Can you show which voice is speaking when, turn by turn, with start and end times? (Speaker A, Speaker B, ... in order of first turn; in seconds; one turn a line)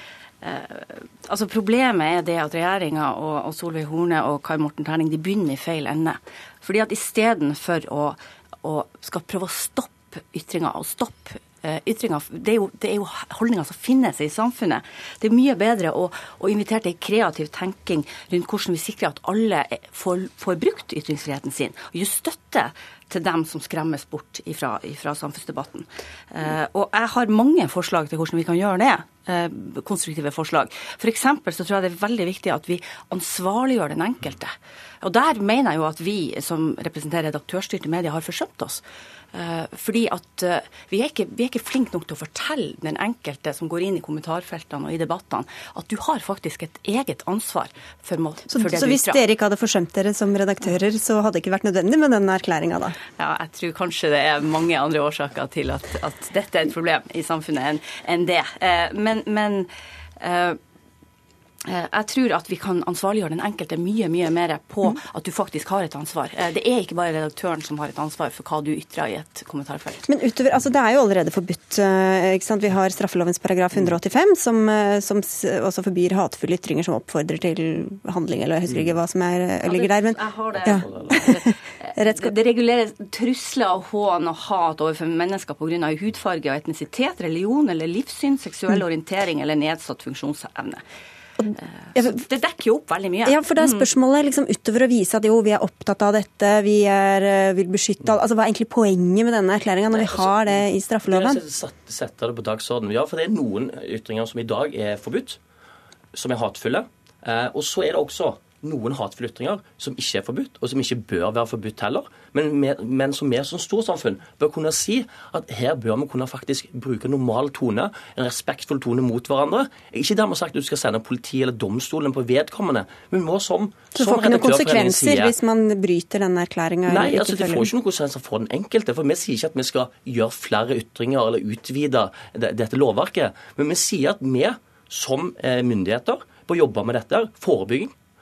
Speaker A: 0.4-49.2
Speaker B: 48.5-53.0
Speaker A: 53.2-60.6
Speaker A: 61.7-70.0
Speaker B: 70.0-81.5
Speaker A: 79.6-90.8
Speaker C: 80.6-81.0
Speaker B: 82.0-82.3
Speaker A: 91.6-93.9
Speaker B: 93.3-101.4
Speaker A: 100.0-100.3
Speaker C: 101.1-105.4
Speaker C: 106.1-125.3
Speaker B: 124.0-127.7
Speaker C: 126.9-137.9